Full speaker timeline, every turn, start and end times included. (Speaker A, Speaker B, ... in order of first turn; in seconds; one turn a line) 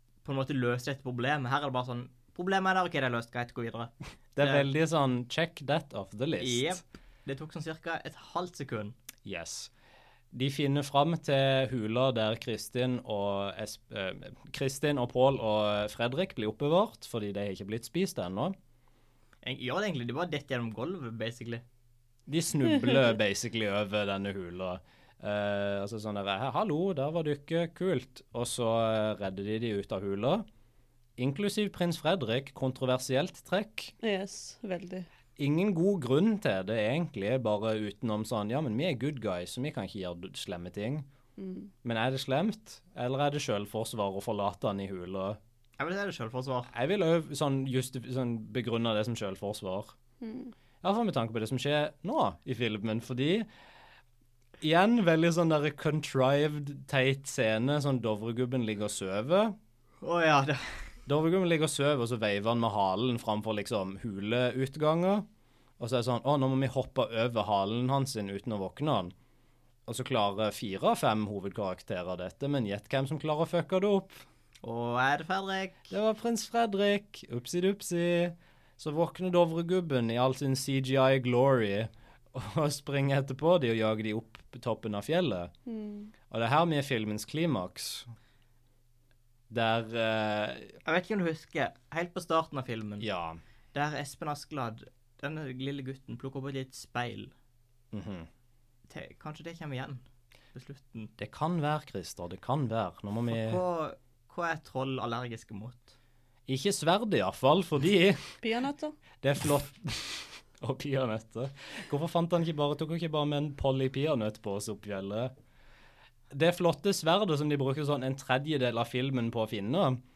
Speaker A: 0.2-4.7
Speaker B: 4.3-6.8
Speaker A: 6.4-8.9
Speaker B: 9.2-9.7
Speaker B: 10.3-18.6
Speaker A: 19.4-21.6
Speaker B: 22.3-30.4
Speaker B: 31.2-33.9
Speaker C: 34.0-35.1
Speaker B: 35.4-41.1
Speaker C: 41.4-41.7
Speaker B: 41.8-45.4
Speaker A: 45.8-46.7
Speaker B: 46.7-49.9
Speaker C: 50.2-50.5
Speaker B: 50.8-53.5
Speaker B: 54.6-59.6
Speaker A: 60.0-60.8
Speaker B: 61.1-65.3
Speaker B: 65.8-69.1
Speaker B: 69.9-74.2
Speaker A: 74.6-75.9
Speaker B: 75.9-85.5
Speaker C: 85.7-86.1
Speaker B: 86.3-88.1
Speaker B: 89.5-90.8
Speaker A: 90.8-93.1
Speaker B: 93.0-93.4
Speaker A: 93.7-97.3
Speaker B: 97.9-98.3
Speaker A: 98.9-101.1
Speaker B: 101.2-103.6
Speaker A: 103.3-105.9
Speaker B: 106.5-108.3
Speaker C: 108.4-109.0
Speaker B: 109.2-115.3
Speaker B: 116.3-120.0